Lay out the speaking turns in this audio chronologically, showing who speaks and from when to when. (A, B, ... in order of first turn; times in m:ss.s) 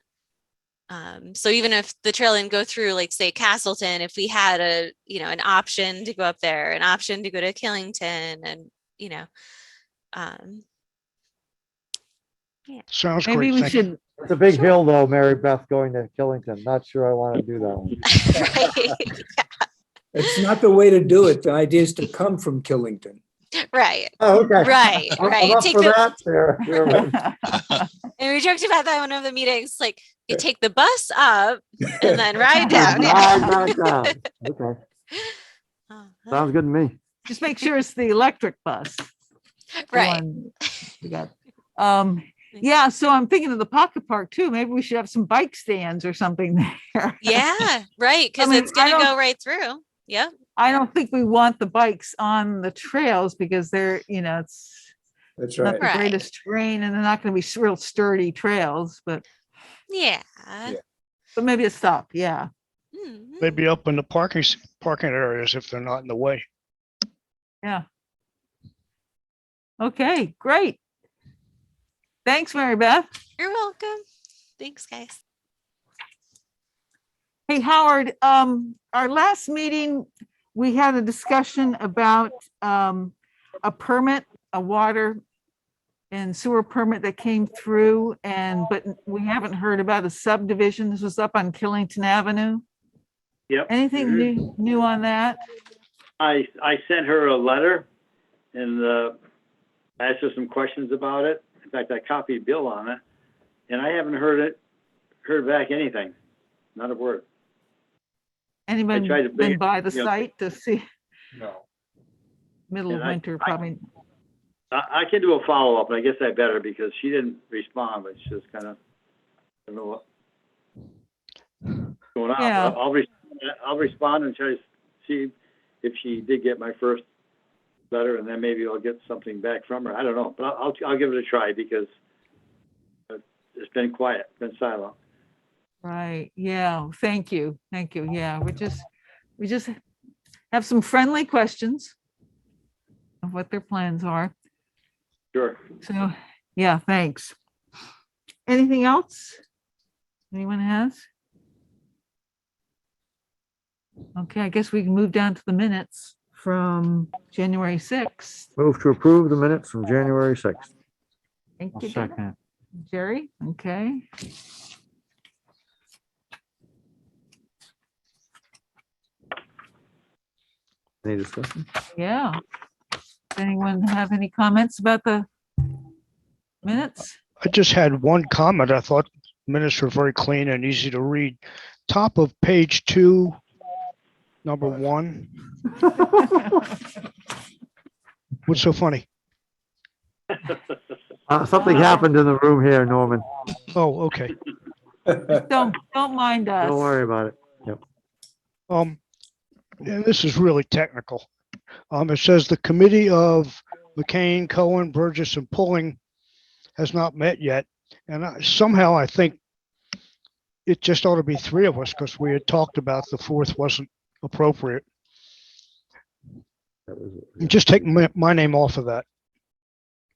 0:00.9-0:09.3 A
0:10.1-0:10.6 A
0:12.9-0:13.8 B
0:13.2-0:14.0 C
0:14.2-0:18.1 D
0:18.1-0:19.6 A
0:20.1-0:23.2 E
0:23.7-0:26.0 A
0:24.2-0:27.1 D
0:26.7-0:27.8 C
0:28.2-0:34.1 A
0:32.5-0:33.5 C
0:32.7-0:34.8 D
0:35.9-0:36.5 A
0:36.3-0:37.0 D
0:37.2-0:39.1 C
0:39.9-0:40.2 A
0:39.9-0:47.5 C
0:47.2-0:50.3 A
0:48.4-0:49.1 C
0:50.6-0:54.9 C
0:55.4-0:55.8 E
0:55.6-0:59.2 C
0:55.8-0:56.2 A
0:59.9-1:00.8 A
1:01.3-1:02.5 C
1:02.9-1:03.6 A
1:03.4-1:06.4 B
1:09.8-1:10.8 C
1:12.2-1:13.1 C
1:13.4-1:14.0 A
1:14.6-1:15.2 A
1:17.5-1:25.2 C
1:26.1-1:32.6 C
1:33.5-1:34.3 F
1:33.7-1:35.4 C
1:36.2-1:37.8 F
1:38.5-1:39.2 F
1:40.0-1:43.0 F
1:43.7-1:44.6 F
1:45.2-1:46.1 F
1:46.7-1:47.2 F
1:48.7-1:50.8 C
1:48.9-1:50.2 F
1:51.3-1:51.6 F
1:52.7-1:53.8 C
1:52.9-1:53.2 F
1:54.7-1:58.8 F
1:59.7-2:00.0 F
2:02.1-2:07.0 F
2:02.4-2:02.8 C
2:07.9-2:11.9 F
2:13.1-2:14.9 F
2:15.8-2:18.8 C
2:19.4-2:19.8 C
2:20.5-2:21.9 C
2:23.2-2:24.3 C
2:25.3-2:25.6 F
2:25.8-2:27.3 C
2:28.5-2:29.4 C
2:30.3-2:31.0 C
2:34.2-2:38.5 C
2:38.6-2:40.7 D
2:41.6-2:42.2 C
2:41.7-2:42.4 D
2:42.8-2:44.0 C
2:51.0-2:51.6 D
2:51.9-2:52.4 C
2:53.3-2:55.3 C
2:56.6-2:57.1 C
2:57.4-3:03.4 B
3:04.4-3:05.3 B
3:08.4-3:09.0 B
3:11.3-3:13.2 D
3:11.6-3:12.1 C
3:13.7-3:14.3 B
3:15.3-3:16.9 C
3:16.6-3:17.8 D
3:18.7-3:19.0 B
3:19.8-3:21.3 B
3:21.9-3:26.0 B
3:26.8-3:29.4 B
3:30.6-3:34.8 B
3:36.9-3:37.9 D
3:37.4-3:39.0 B